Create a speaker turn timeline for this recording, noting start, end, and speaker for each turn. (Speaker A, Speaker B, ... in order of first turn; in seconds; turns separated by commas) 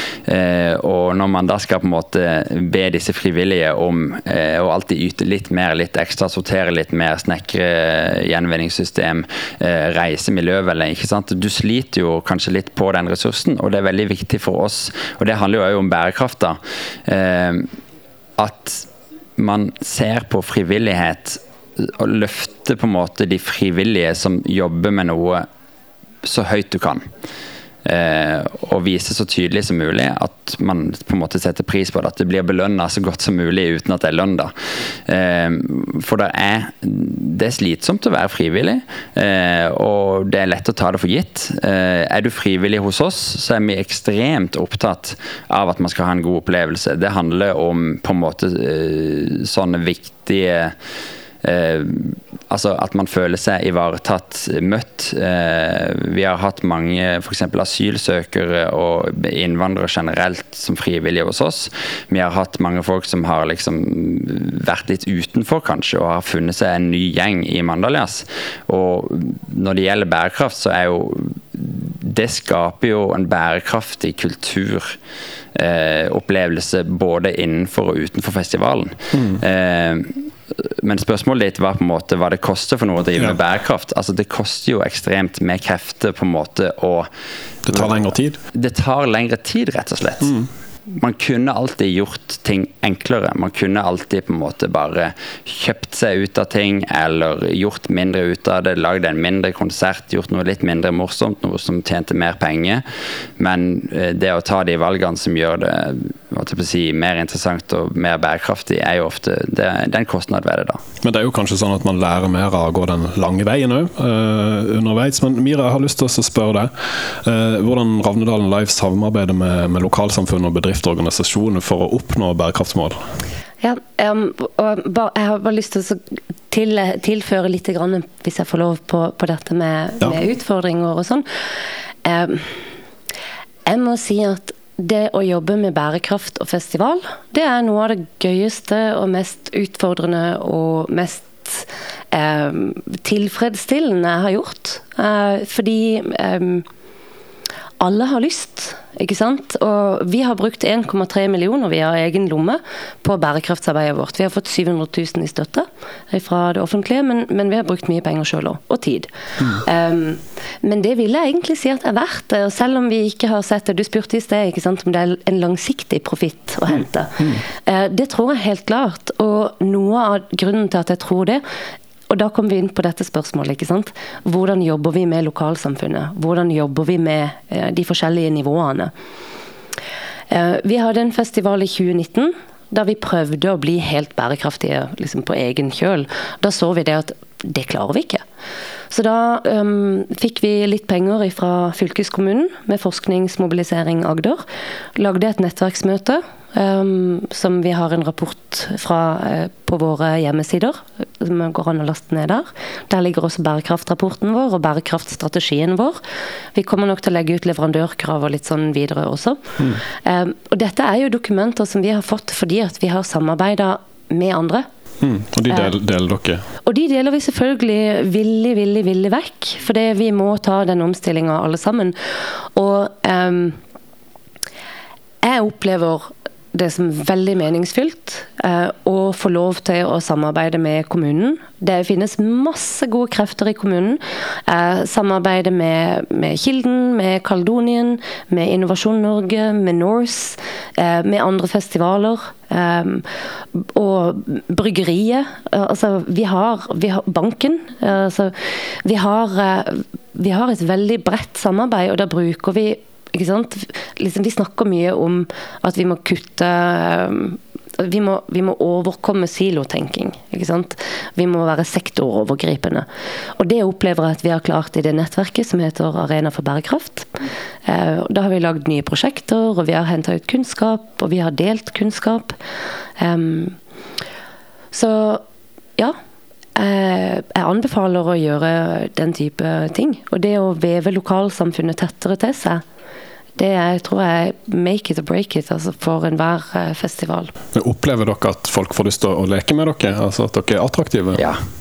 Speaker A: 0.2-17.7, Speaker A: 18.4-25.5, Speaker A: 26.2-27.1, Speaker A: 27.8-50.7, Speaker A: 51.4-75.0, Speaker A: 75.5-87.1, Speaker B: 79.1-79.4, Speaker B: 87.6-88.4, Speaker A: 87.7-90.3, Speaker B: 90.2-90.5, Speaker A: 90.9-102.8, Speaker A: 103.4-110.8, Speaker B: 111.0-123.0, Speaker C: 123.6-126.0, Speaker C: 126.5-131.2, Speaker C: 132.0-132.6, Speaker C: 133.7-146.6, Speaker C: 147.8-171.4, Speaker C: 172.1-178.9, Speaker C: 180.3-188.2, Speaker C: 188.9-194.4, Speaker C: 194.9-206.0, Speaker C: 206.5-214.7, Speaker B: 215.0-216.4, Speaker C: 215.5-215.7, Speaker C: 216.7-223.6, Speaker C: 225.2-262.9, Speaker C: 263.4-272.3, Speaker C: 273.0-273.6, Speaker C: 274.7-275.2, Speaker C: 276.6-282.6, Speaker C: 283.4-287.3, Speaker B: 287.5-291.2, Speaker A: 291.1-291.4